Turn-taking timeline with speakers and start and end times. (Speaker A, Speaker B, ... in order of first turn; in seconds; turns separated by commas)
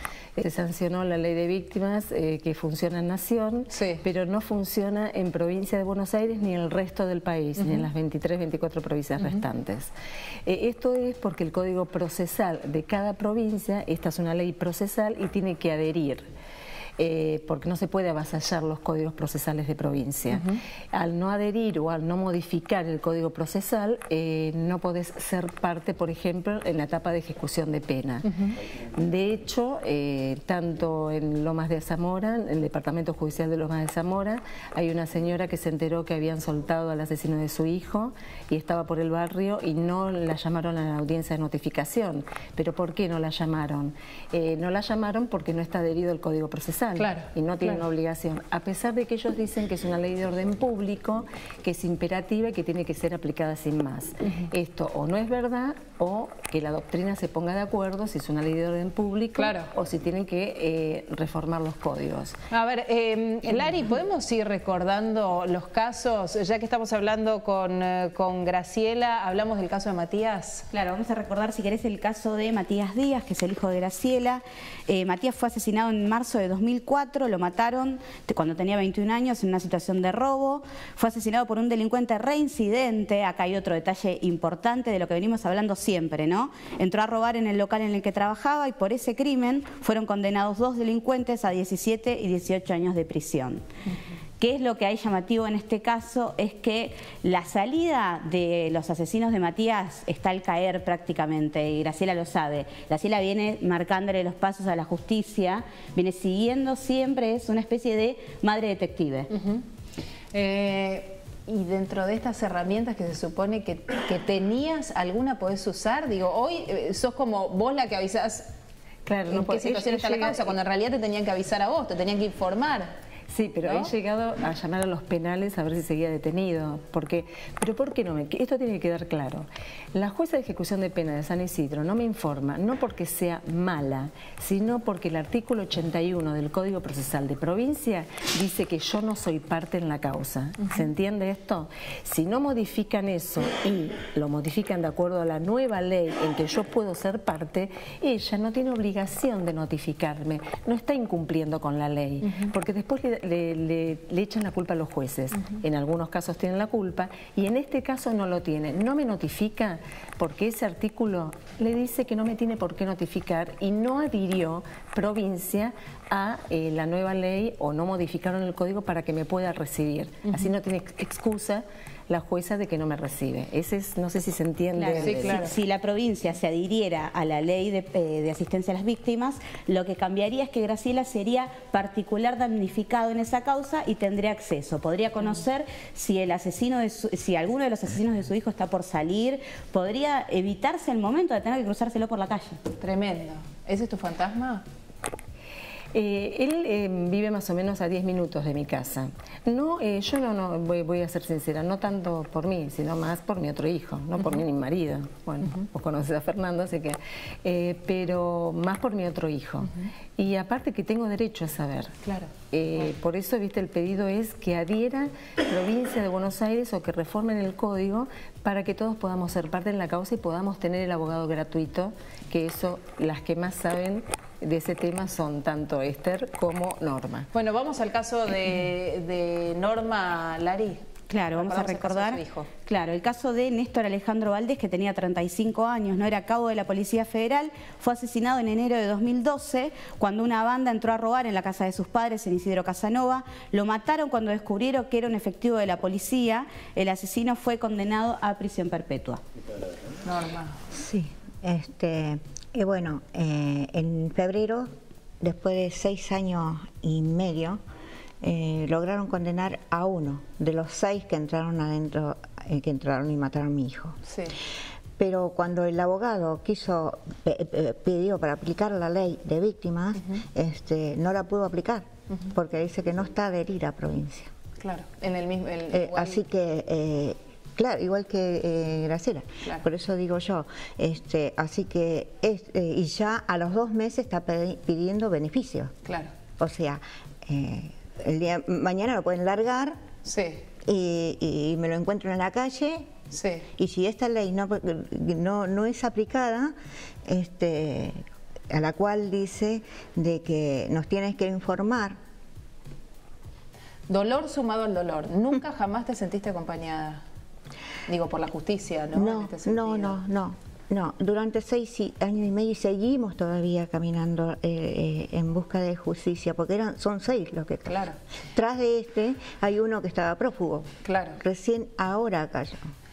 Speaker A: 0.3-9.9, Speaker B: 3.7-4.0, Speaker B: 7.6-7.9, Speaker A: 10.4-16.2, Speaker A: 17.0-28.3, Speaker B: 20.3-20.6, Speaker B: 28.2-28.6, Speaker A: 28.9-62.4, Speaker B: 47.0-47.8, Speaker B: 59.4-59.7, Speaker B: 62.5-70.6, Speaker C: 70.7-93.6, Speaker C: 94.4-109.3, Speaker B: 109.3-109.6, Speaker B: 110.3-118.5, Speaker A: 119.0-120.5, Speaker B: 119.3-122.9, Speaker A: 123.3-175.5, Speaker B: 123.6-123.9, Speaker C: 174.7-192.6, Speaker B: 175.0-175.5, Speaker B: 192.8-194.6, Speaker A: 195.9-212.0, Speaker B: 212.0-212.3, Speaker A: 212.5-227.3, Speaker B: 227.3-232.5, Speaker C: 231.1-249.2, Speaker B: 250.0-250.6, Speaker D: 250.7-254.7, Speaker D: 255.2-257.6, Speaker D: 258.2-264.0, Speaker B: 264.1-264.3, Speaker D: 265.0-274.3, Speaker B: 274.6-276.2, Speaker D: 275.7-285.7, Speaker D: 286.4-289.8, Speaker B: 290.0-290.4, Speaker D: 290.6-292.9, Speaker B: 293.1-293.4, Speaker D: 293.6-296.5, Speaker D: 297.1-298.0, Speaker D: 298.5-301.9, Speaker B: 303.9-307.0, Speaker B: 307.9-310.0, Speaker D: 308.9-317.8, Speaker B: 317.6-317.9, Speaker D: 318.3-320.7, Speaker B: 320.8-321.2, Speaker D: 321.2-322.6